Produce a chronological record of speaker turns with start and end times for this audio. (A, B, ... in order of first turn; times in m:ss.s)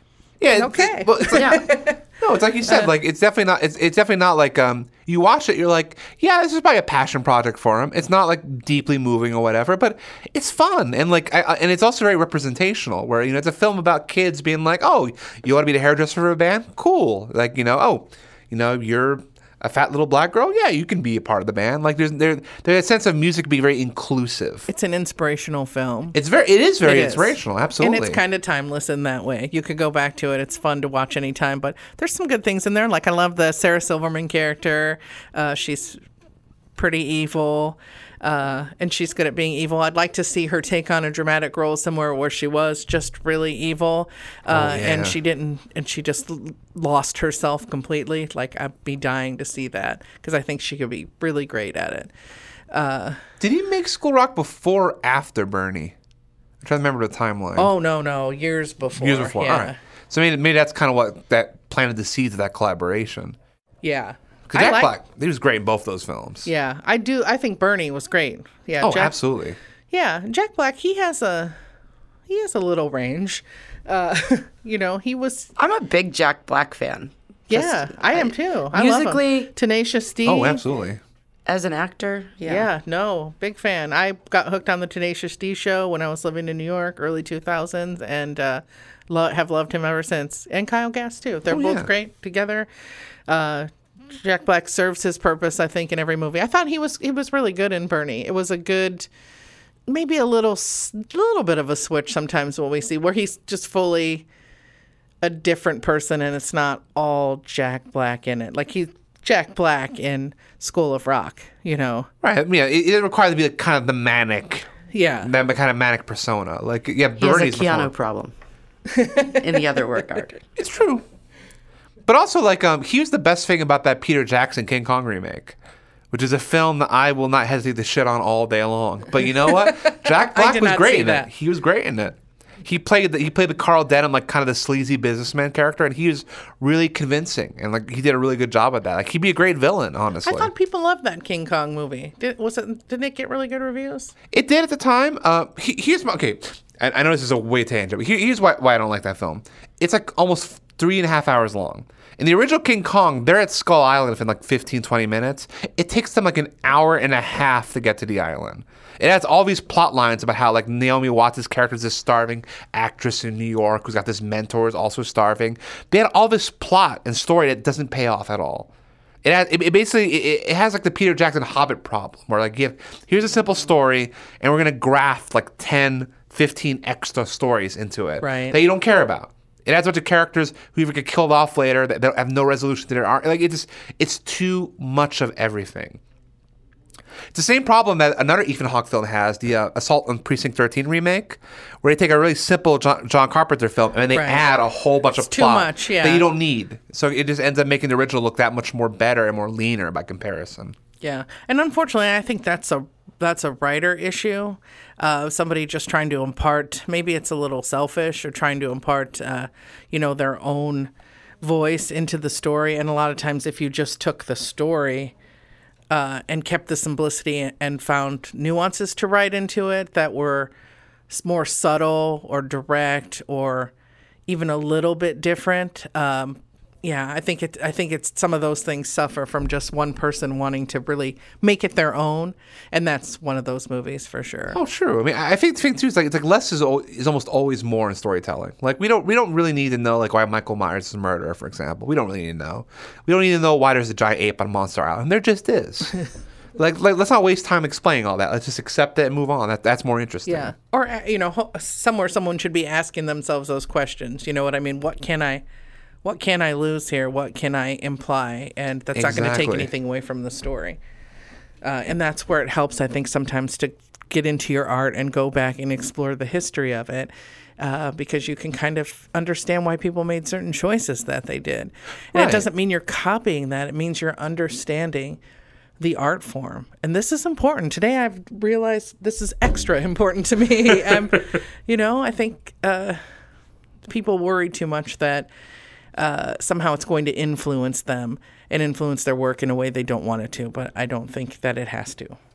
0:00.4-0:24.7 A
0:00.5-0:02.0 B
0:01.3-0:01.6 C
0:24.7-0:26.2 B
0:26.1-0:28.2 A
0:26.8-0:36.0 B
0:36.8-0:52.1 B
0:44.5-0:45.2 A
0:52.7-0:53.2 B
0:53.4-0:56.0 A
0:56.6-0:57.7 A
0:57.6-0:59.8 B
0:59.0-1:03.4 A
1:03.8-1:04.9 B
1:04.5-1:06.5 A
1:06.4-1:09.2 B
1:08.8-1:09.6 A
1:09.9-1:11.6 B
1:12.3-1:15.5 B
1:15.6-1:19.5 C
1:17.5-1:20.6 B
1:20.2-1:21.0 A
1:21.4-1:22.7 C
1:22.4-1:32.7 B
1:31.5-1:31.9 A
1:33.3-1:39.1 B
1:39.9-1:44.2 B
1:45.2-1:52.1 B
1:52.2-1:54.7 A
1:54.9-1:55.3 B
1:55.2-1:57.9 A
1:57.2-1:58.3 C
1:58.9-1:59.5 B
1:59.3-2:00.4 C
2:00.6-2:01.0 A
2:02.1-2:05.6 A
2:06.1-2:20.5 A
2:09.4-2:11.3 B
2:20.2-2:24.1 B
2:24.3-2:48.7 A
2:49.2-3:06.0 A
2:58.2-2:58.6 B
3:07.3-3:20.8 A
3:14.1-3:14.4 B
3:15.2-3:16.3 B
3:21.0-3:35.1 B
3:35.9-3:40.5 B
3:41.1-3:43.7 B
3:44.3-3:54.6 B
3:54.5-4:06.0 A
4:06.6-4:10.5 A
4:10.2-4:15.4 B
4:16.0-4:20.8 B
4:18.9-4:19.7 A
4:21.6-4:35.2 B
4:32.1-4:32.5 A
4:35.8-4:43.0 B
4:43.8-4:45.3 B
4:46.0-4:52.2 B